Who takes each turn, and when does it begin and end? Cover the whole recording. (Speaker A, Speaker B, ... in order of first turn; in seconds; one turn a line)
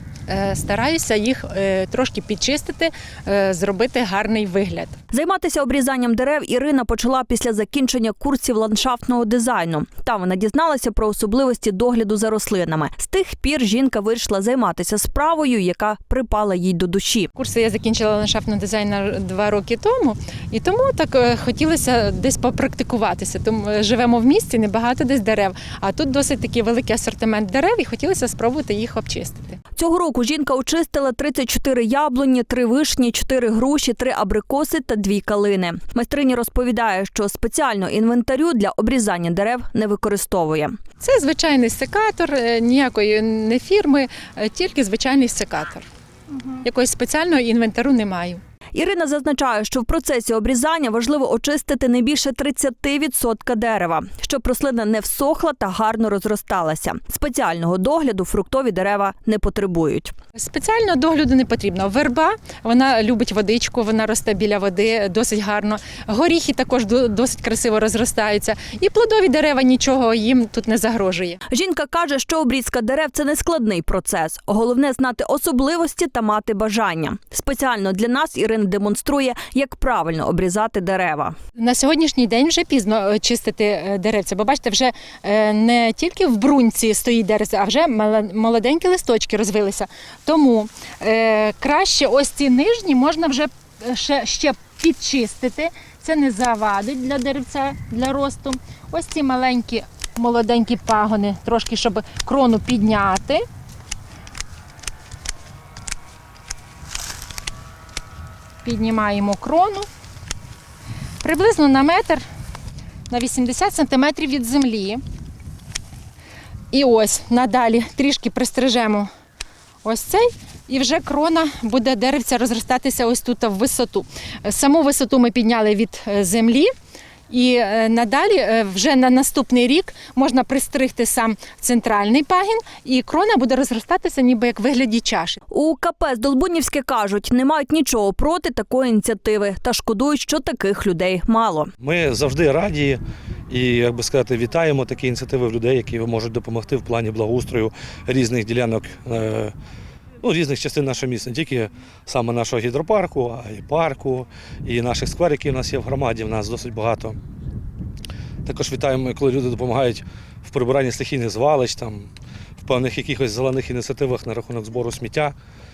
Speaker A: 0.3-5.0
Speaker B: 5.1-17.3
Speaker A: 17.4-29.6
Speaker B: 29.8-40.7
Speaker A: 41.0-45.9
Speaker A: 46.5-48.4
Speaker B: 48.7-60.1
Speaker A: 60.4-71.4
Speaker B: 71.5-81.3
Speaker A: 81.6-103.4
Speaker A: 108.6-109.9
Speaker A: 111.2-112.2
Speaker A: 113.1-115.0
Speaker A: 116.7-119.1
Speaker A: 119.8-126.7
Speaker A: 127.3-135.4
Speaker B: 135.5-141.7
Speaker C: 141.8-149.6
Speaker C: 150.2-157.2
Speaker C: 158.4-162.1
Speaker C: 162.6-165.3